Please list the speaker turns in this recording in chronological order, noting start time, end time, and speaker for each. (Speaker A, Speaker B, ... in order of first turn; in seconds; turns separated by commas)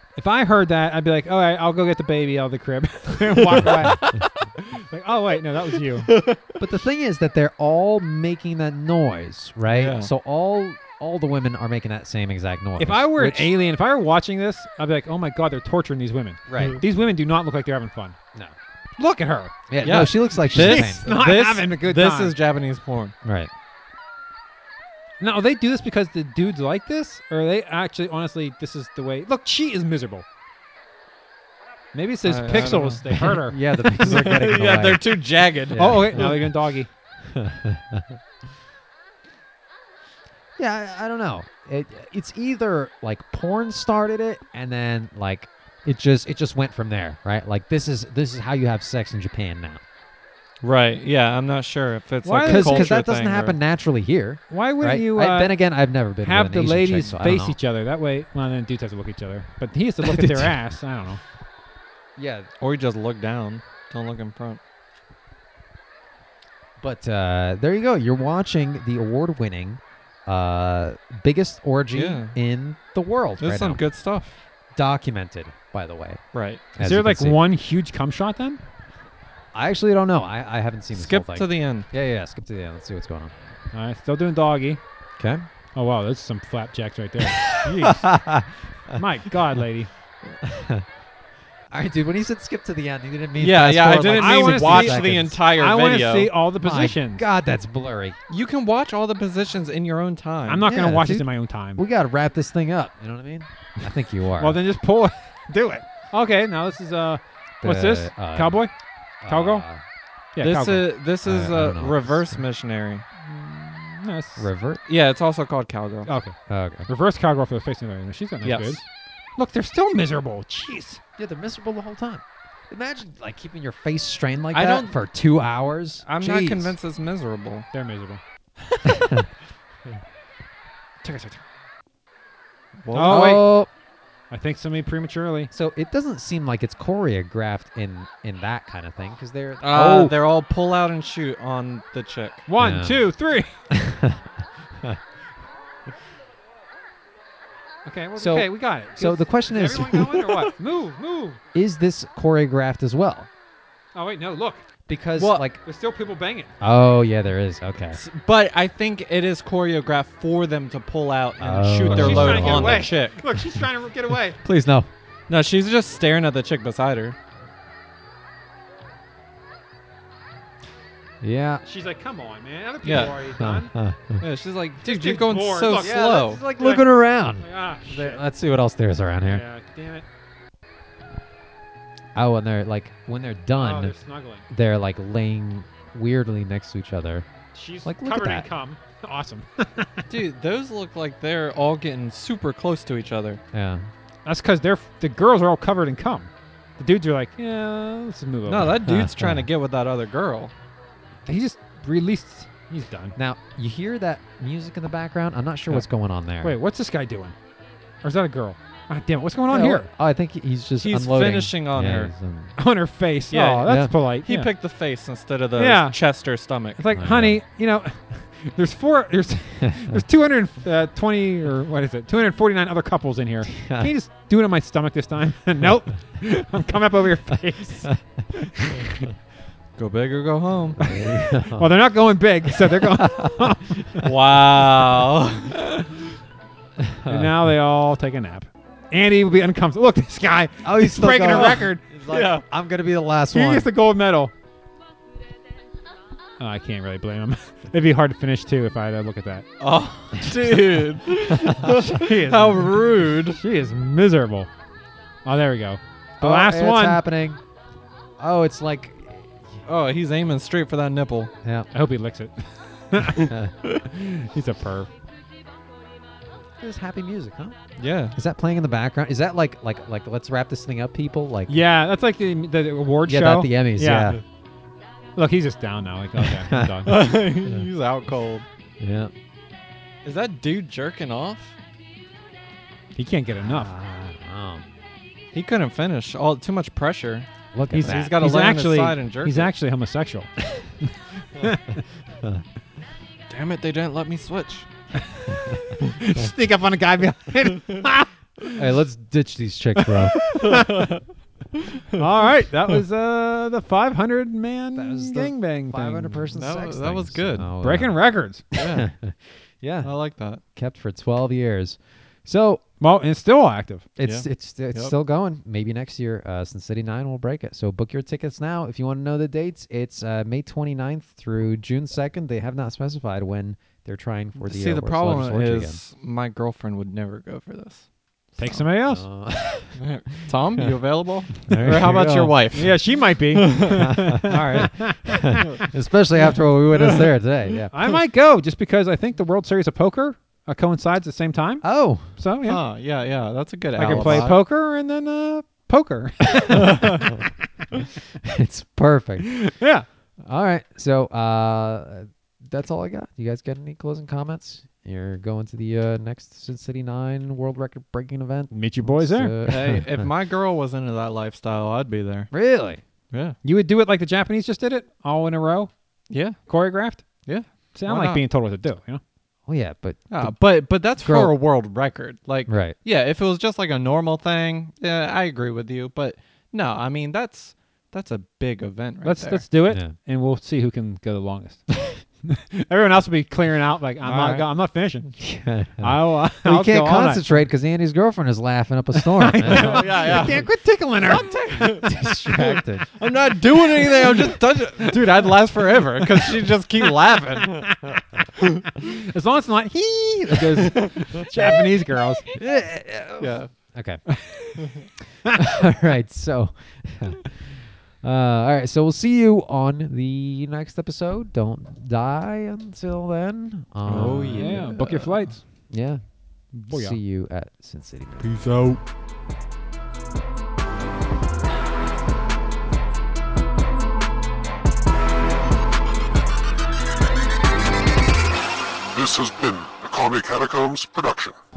Speaker A: 0.2-6.1, Speaker B: 6.1-6.4, Speaker C: 6.6-13.5, Speaker B: 9.7-10.1, Speaker A: 12.8-18.2, Speaker C: 16.5-16.8, Speaker A: 19.0-22.3, Speaker C: 19.7-21.1, Speaker B: 19.8-23.1, Speaker C: 23.2-23.5, Speaker A: 25.2-30.2, Speaker A: 31.9-33.6, Speaker B: 32.2-33.2, Speaker C: 33.1-35.1, Speaker B: 33.9-36.4, Speaker C: 35.7-36.4, Speaker A: 35.8-36.9, Speaker C: 37.2-38.2, Speaker C: 40.6-49.8, Speaker B: 50.6-53.6, Speaker A: 52.2-52.9, Speaker C: 52.4-57.6, Speaker A: 54.5-55.6, Speaker A: 56.2-61.2, Speaker C: 60.0-60.5, Speaker C: 62.2-62.5, Speaker B: 62.6-64.6, Speaker C: 66.8-73.8, Speaker B: 71.9-72.4, Speaker B: 73.4-74.3, Speaker C: 74.7-77.4, Speaker B: 76.3-76.7, Speaker A: 76.8-78.6, Speaker C: 79.5-83.3, Speaker B: 80.9-81.9, Speaker A: 83.7-84.8, Speaker C: 85.2-85.5, Speaker A: 85.8-88.2, Speaker C: 87.3-89.6, Speaker A: 88.9-89.9, Speaker C: 90.3-90.9, Speaker C: 91.7-95.4, Speaker B: 93.4-96.3, Speaker A: 94.2-97.2, Speaker C: 96.6-98.2, Speaker B: 98.3-100.7, Speaker A: 100.5-101.8, Speaker C: 100.7-104.6, Speaker A: 104.4-108.7, Speaker C: 107.6-108.6, Speaker C: 109.2-109.8, Speaker A: 109.2-109.7, Speaker A: 110.3-110.9, Speaker B: 110.4-113.0, Speaker C: 111.2-112.4, Speaker A: 113.2-114.5, Speaker C: 114.4-114.8, Speaker B: 114.9-116.1, Speaker A: 116.1-118.8, Speaker C: 116.5-116.9, Speaker B: 118.4-118.8, Speaker A: 119.4-121.0, Speaker C: 121.2-126.8, Speaker B: 124.5-125.0, Speaker B: 126.0-127.7, Speaker A: 127.7-128.2, Speaker C: 128.9-129.3, Speaker A: 131.1-131.4, Speaker B: 132.8-133.4, Speaker A: 132.9-133.4, Speaker C: 133.1-133.7, Speaker A: 134.3-135.5, Speaker C: 135.5-140.2, Speaker B: 139.6-142.4, Speaker A: 139.7-140.1, Speaker A: 142.5-143.6, Speaker C: 142.6-143.1, Speaker C: 143.7-144.3, Speaker A: 147.8-151.4, Speaker C: 148.2-150.1, Speaker B: 149.9-150.4, Speaker C: 151.5-153.3, Speaker A: 153.9-154.7, Speaker C: 154.9-155.6, Speaker B: 155.2-155.4, Speaker A: 155.6-156.5, Speaker C: 156.6-158.0, Speaker B: 157.9-163.2, Speaker C: 161.4-162.9, Speaker A: 161.8-164.4, Speaker C: 164.4-164.9, Speaker B: 165.3-167.2, Speaker C: 171.2-171.6, Speaker A: 171.6-173.7, Speaker B: 172.8-173.2, Speaker C: 173.4-174.2, Speaker B: 174.2-176.8, Speaker A: 174.8-176.0, Speaker C: 175.8-179.4, Speaker A: 177.4-178.2, Speaker A: 179.3-180.1, Speaker C: 182.2-183.9, Speaker A: 183.6-184.4, Speaker C: 184.5-187.3, Speaker A: 187.5-190.1, Speaker C: 187.8-188.5, Speaker B: 190.1-193.4, Speaker C: 193.5-193.9, Speaker A: 194.2-198.8, Speaker B: 198.5-200.5, Speaker C: 198.8-199.5, Speaker A: 201.3-203.2, Speaker C: 203.2-206.6, Speaker A: 206.4-207.4, Speaker A: 208.0-209.9, Speaker C: 209.5-212.6, Speaker B: 210.8-212.1, Speaker A: 212.6-214.5, Speaker B: 213.3-213.7, Speaker C: 213.6-213.9, Speaker B: 214.2-216.8, Speaker A: 215.6-216.0, Speaker A: 216.8-228.8, Speaker C: 216.9-217.4, Speaker C: 223.6-223.9, Speaker B: 229.8-230.9, Speaker C: 230.8-231.7, Speaker A: 231.5-233.6, Speaker C: 232.7-234.1, Speaker B: 234.0-235.8, Speaker C: 236.8-237.4, Speaker A: 237.1-241.8, Speaker C: 240.6-243.7, Speaker B: 241.3-242.5, Speaker A: 243.3-244.3, Speaker A: 246.4-249.5, Speaker B: 249.6-253.4, Speaker A: 251.7-252.7, Speaker A: 253.3-254.5, Speaker A: 255.2-257.0, Speaker C: 256.2-257.4, Speaker C: 258.2-259.4, Speaker B: 259.6-261.3, Speaker C: 261.4-261.7, Speaker A: 261.7-264.9, Speaker C: 266.6-267.6, Speaker B: 267.8-268.2, Speaker C: 268.1-271.6, Speaker A: 271.5-274.2, Speaker C: 273.1-274.2, Speaker A: 275.2-277.0, Speaker C: 276.5-276.8, Speaker B: 276.9-278.5, Speaker C: 278.8-279.1, Speaker B: 280.0-281.6, Speaker A: 282.9-283.7, Speaker C: 283.4-284.7, Speaker B: 285.3-289.5, Speaker C: 287.5-288.2, Speaker A: 287.7-291.8, Speaker B: 293.3-294.7, Speaker A: 296.0-298.5, Speaker C: 298.6-300.3, Speaker A: 299.8-300.8, Speaker B: 300.4-301.0, Speaker A: 301.9-306.3, Speaker C: 304.8-312.6, Speaker B: 306.3-307.5, Speaker A: 307.6-308.4, Speaker B: 308.5-308.9, Speaker B: 309.8-310.4, Speaker A: 312.8-313.9, Speaker C: 314.0-325.8, Speaker B: 314.0-314.9, Speaker B: 324.4-327.9, Speaker A: 328.4-329.1, Speaker C: 328.4-329.9, Speaker B: 329.8-334.4, Speaker C: 331.4-332.4, Speaker A: 332.5-335.4, Speaker C: 333.8-337.9, Speaker B: 335.4-335.7, Speaker B: 336.7-337.1, Speaker A: 337.7-342.6, Speaker C: 341.6-342.2, Speaker B: 342.5-344.4, Speaker C: 343.8-344.4, Speaker A: 343.8-347.1, Speaker B: 346.5-347.1, Speaker C: 348.3-349.5, Speaker A: 349.5-349.9, Speaker C: 350.2-360.1, Speaker A: 358.5-359.4, Speaker B: 359.5-362.4, Speaker C: 362.3-362.8, Speaker B: 363.1-363.4, Speaker A: 363.4-365.7, Speaker B: 366.1-366.4, Speaker A: 366.4-369.0, Speaker B: 367.2-368.2, Speaker C: 369.5-371.4, Speaker B: 370.1-379.5, Speaker C: 372.5-372.8, Speaker A: 379.0-387.2, Speaker C: 379.7-379.9, Speaker B: 384.0-384.4, Speaker C: 385.2-390.1, Speaker A: 389.0-391.5, Speaker B: 389.4-397.9, Speaker C: 391.8-392.9, Speaker A: 398.8-402.2, Speaker B: 400.8-401.2, Speaker C: 402.4-404.1, Speaker B: 403.2-403.5, Speaker A: 404.2-404.6, Speaker B: 404.6-404.9, Speaker C: 405.3-414.8, Speaker B: 413.9-415.4, Speaker A: 414.3-415.7, Speaker C: 415.7-418.4, Speaker A: 416.5-417.0, Speaker B: 418.2-418.8, Speaker D: 428.9-431.4